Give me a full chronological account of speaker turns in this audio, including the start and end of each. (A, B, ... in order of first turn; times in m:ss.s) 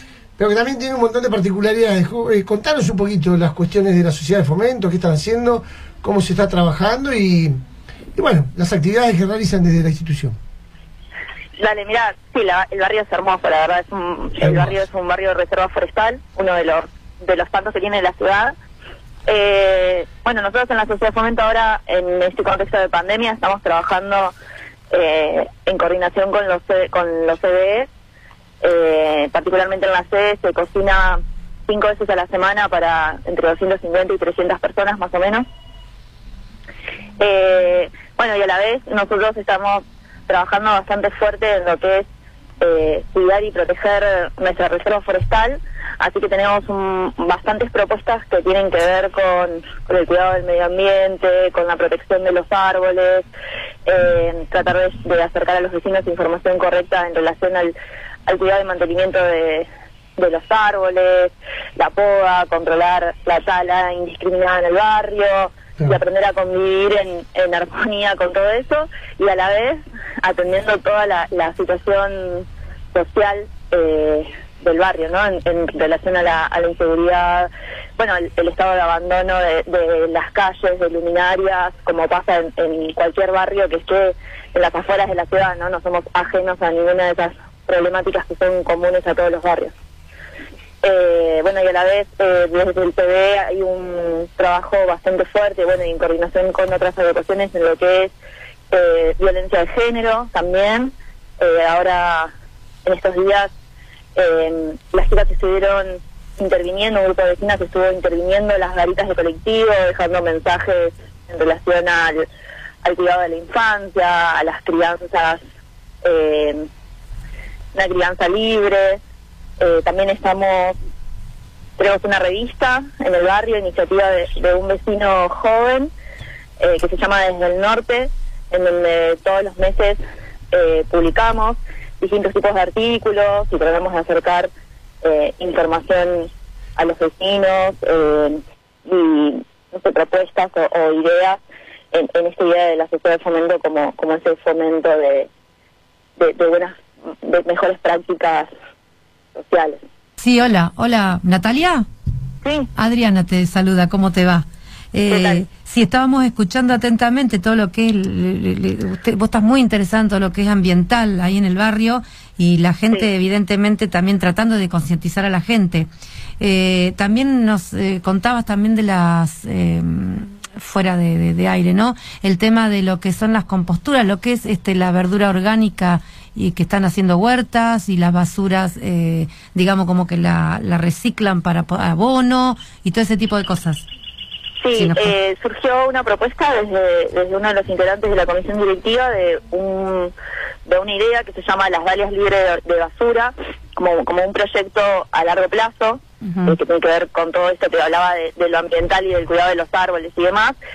0:00.4-0:07.6 A
0:08.2-0:10.4 A
0:11.6-0:18.5 B
0:14.4-0:14.7 A
0:19.3-0:24.3 B
0:24.9-0:27.9 B
0:28.6-0:35.4 B
0:37.2-0:42.1 B
0:42.6-0:53.3 B
0:53.8-0:57.7 B
0:58.3-1:29.7 B
1:30.8-1:38.1 B
1:38.7-1:42.3 B
1:42.8-1:43.5 B
1:44.1-1:52.2 B
1:52.8-1:55.4 B
1:56.0-1:56.7 B
1:57.7-1:59.0 B
1:59.6-2:00.8 B
2:01.8-2:05.9 B
2:06.6-2:10.0 B
2:10.5-2:14.5 B
2:15.0-2:21.4 B
2:21.9-2:25.3 B
2:26.2-2:28.5 B
2:29.3-2:29.8 B
2:30.2-2:31.8 C
2:32.4-2:32.7 B
2:32.8-2:45.9 C
2:35.1-2:35.4 B
2:46.4-3:03.8 C
3:04.6-3:10.1 B
3:04.7-3:05.1 C
3:10.6-3:20.5 B